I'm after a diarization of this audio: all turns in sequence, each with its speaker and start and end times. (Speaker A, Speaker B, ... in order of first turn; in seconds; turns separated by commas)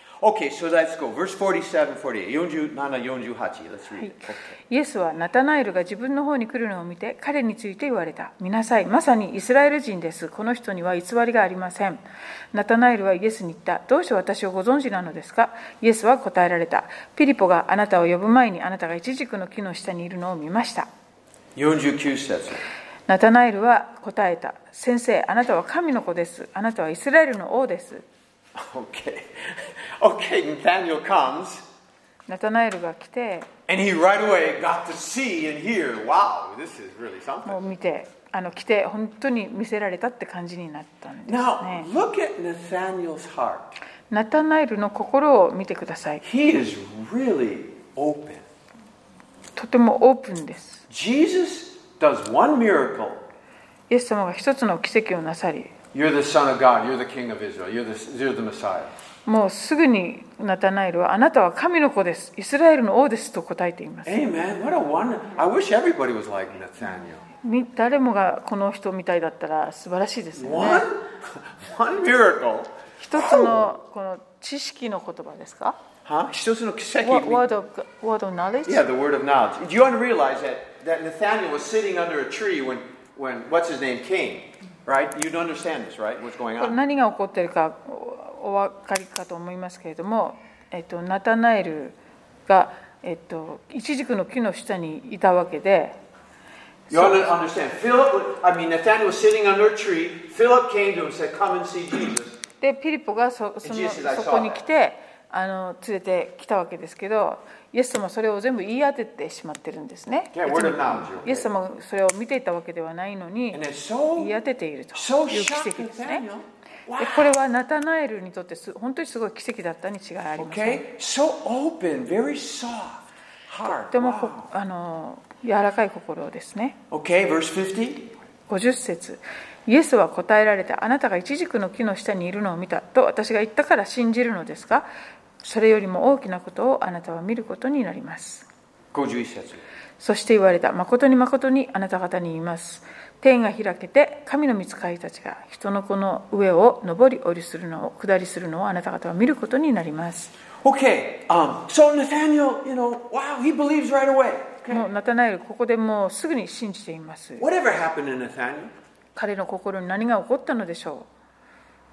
Speaker A: 0.2-4.6, Speaker B: 4.0-12.0, Speaker B: 12.5-20.9, Speaker A: 21.6-22.6, Speaker B: 23.1-28.1, Speaker A: 28.5-31.6, Speaker B: 32.3-33.5, Speaker A: 33.7-37.6, Speaker B: 37.4-41.9, Speaker A: 41.2-43.7, Speaker B: 44.1-46.2, Speaker A: 46.2-48.4, Speaker B: 49.5-50.8, Speaker A: 50.9-53.2, Speaker B: 53.9-55.7, Speaker A: 55.9-58.9, Speaker B: 59.2-64.2, Speaker A: 64.0-67.2, Speaker B: 67.4-70.9, Speaker A: 70.3-73.7, Speaker B: 73.0-75.8, Speaker A: 76.0-77.4, Speaker B: 77.0-78.8, Speaker A: 78.7-86.8, Speaker B: 86.6-92.0, Speaker B: 92.5-96.0, Speaker B: 96.9-97.3, Speaker A: 96.9-102.4, Speaker B: 102.6-113.6, Speaker A: 103.6-104.6, Speaker A: 110.3-111.5, Speaker A: 113.5-114.3, Speaker B: 114.2-116.2, Speaker A: 114.9-117.3, Speaker B: 117.0-120.8, Speaker A: 120.4-124.5, Speaker B: 123.7-126.8, Speaker A: 126.9-128.1, Speaker B: 128.5-134.9, Speaker B: 135.4-138.5, Speaker A: 138.9-139.6, Speaker B: 140.0-150.3, Speaker A: 150.6-154.8, Speaker B: 154.7-157.4, Speaker A: 157.4-158.7, Speaker B: 159.1-161.1